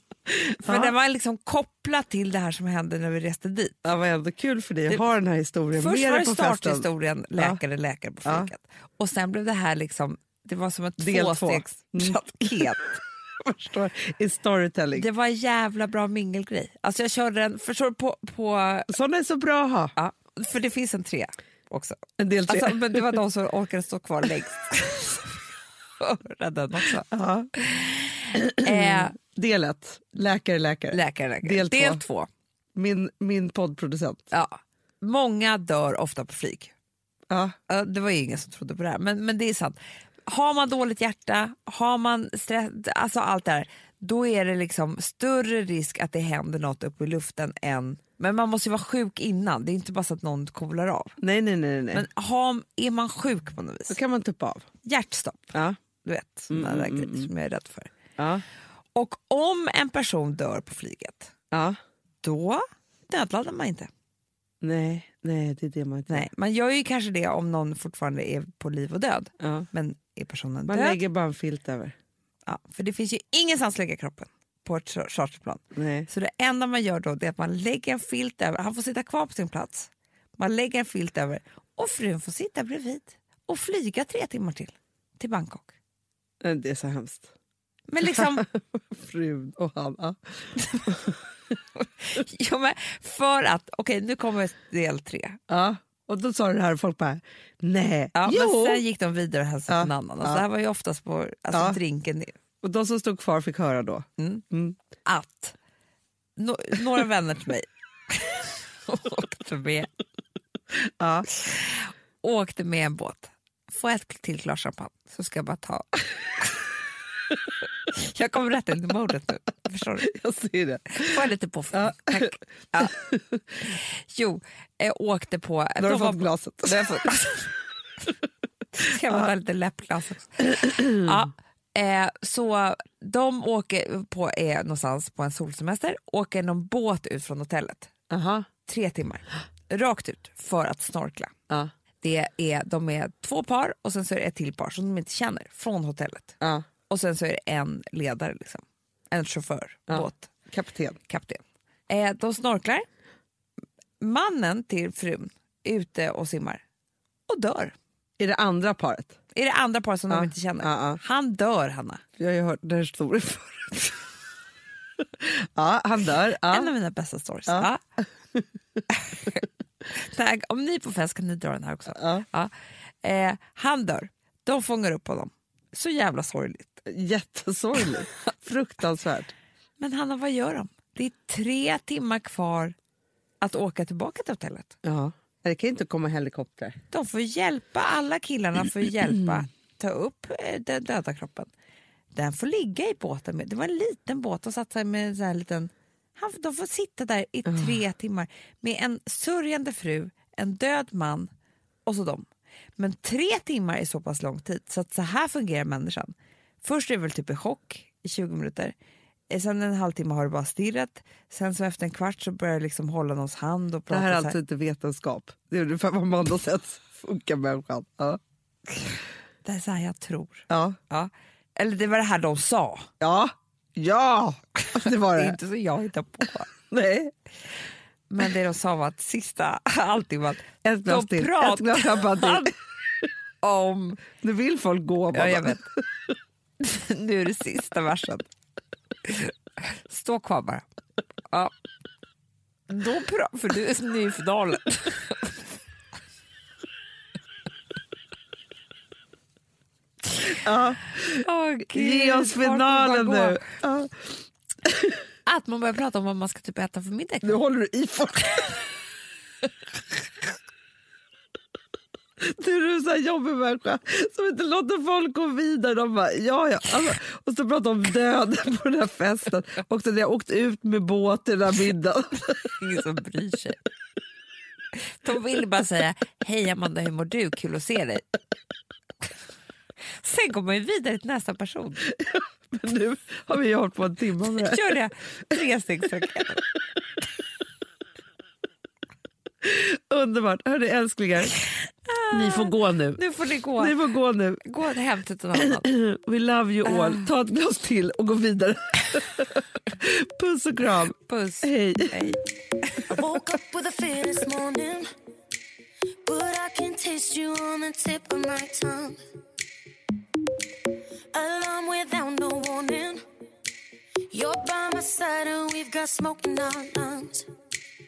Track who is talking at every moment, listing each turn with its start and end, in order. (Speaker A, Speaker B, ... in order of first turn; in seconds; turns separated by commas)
Speaker A: 0.3-0.9, Speaker B: 0.6-3.8, Speaker A: 3.8-7.6, Speaker B: 5.7-13.0, Speaker A: 8.2-8.5, Speaker A: 11.0-12.6, Speaker A: 13.4-15.1, Speaker B: 14.9-18.9, Speaker A: 18.9-19.9, Speaker B: 19.9-25.4, Speaker A: 22.2-23.0, Speaker B: 26.0-29.1, Speaker A: 27.1-27.5, Speaker A: 28.3-32.0, Speaker B: 30.9-32.3, Speaker A: 32.7-34.3, Speaker B: 34.3-36.7, Speaker A: 37.3-37.5, Speaker B: 37.7-51.2, Speaker A: 51.2-52.0, Speaker B: 51.9-54.0, Speaker A: 53.9-54.7, Speaker B: 54.8-57.9, Speaker A: 56.5-57.3, Speaker A: 58.2-58.4, Speaker B: 58.9-61.3, Speaker A: 61.5-61.8, Speaker B: 62.2-63.9, Speaker A: 64.6-66.3, Speaker B: 66.1-71.0, Speaker A: 69.4-69.7, Speaker A: 70.7-71.9, Speaker B: 72.5-85.7, Speaker A: 75.8-76.1, Speaker A: 86.4-87.3, Speaker B: 87.9-88.5, Speaker A: 88.1-91.2, Speaker B: 90.6-90.9, Speaker B: 91.8-95.4, Speaker A: 95.5-98.8, Speaker B: 98.1-102.3, Speaker A: 99.7-100.4, Speaker A: 101.5-101.8, Speaker A: 102.6-104.8, Speaker B: 104.2-104.4, Speaker B: 105.0-105.5, Speaker B: 106.4-109.9, Speaker A: 110.9-111.3, Speaker B: 111.3-116.6, Speaker B: 117.9-120.1, Speaker A: 120.0-121.2, Speaker B: 121.0-122.9, Speaker A: 121.7-123.4, Speaker B: 123.6-127.5, Speaker A: 125.8-127.0, Speaker B: 128.8-137.9, Speaker A: 130.4-131.2, Speaker A: 138.1-138.5, Speaker B: 138.7-141.3, Speaker B: 142.0-146.3, Speaker A: 146.4-146.7, Speaker B: 146.9-150.3, Speaker A: 149.9-151.0, Speaker B: 151.1-152.8, Speaker B: 154.0-156.6, Speaker B: 157.3-157.7, Speaker A: 158.2-159.2, Speaker B: 159.3-162.0, Speaker A: 160.1-161.0, Speaker A: 162.2-164.0, Speaker A: 165.2-166.7, Speaker B: 166.4-167.8, Speaker B: 168.9-169.4, Speaker B: 169.9-172.5, Speaker A: 171.9-172.2, Speaker B: 173.0-176.8, Speaker A: 176.8-179.3, Speaker B: 179.8-182.8, Speaker B: 183.4-184.7, Speaker A: 184.8-186.8, Speaker B: 186.9-191.5, Speaker B: 192.1-201.3, Speaker A: 197.4-197.8, Speaker B: 201.8-208.7, Speaker B: 209.3-214.3, Speaker A: 213.9-218.2, Speaker B: 219.4-222.9, Speaker A: 220.5-220.8, Speaker A: 223.0-225.3, Speaker B: 224.8-226.5, Speaker A: 226.7-227.1, Speaker B: 228.1-232.5, Speaker A: 230.6-232.5, Speaker B: 233.4-234.0, Speaker A: 234.2-235.8, Speaker B: 235.1-235.7, Speaker B: 236.6-238.3, Speaker B: 239.0-240.6, Speaker B: 242.7-245.4, Speaker A: 250.4-254.1, Speaker B: 251.2-253.4, Speaker A: 254.6-254.9, Speaker B: 255.2-257.4, Speaker A: 257.2-258.6, Speaker A: 262.2-272.5, Speaker B: 272.6-273.6, Speaker B: 274.8-278.1, Speaker B: 280.0-281.8, Speaker A: 282.1-284.6, Speaker B: 284.3-286.4, Speaker A: 289.4-291.4, Speaker B: 291.6-293.8, Speaker A: 292.1-293.0, Speaker A: 293.6-294.4, Speaker B: 294.4-295.6, Speaker A: 295.4-302.2, Speaker B: 296.6-297.1, Speaker B: 301.1-302.8, Speaker C: 302.9-304.9, Speaker C: 306.0-309.0, Speaker C: 311.1-313.0, Speaker C: 314.1-317.3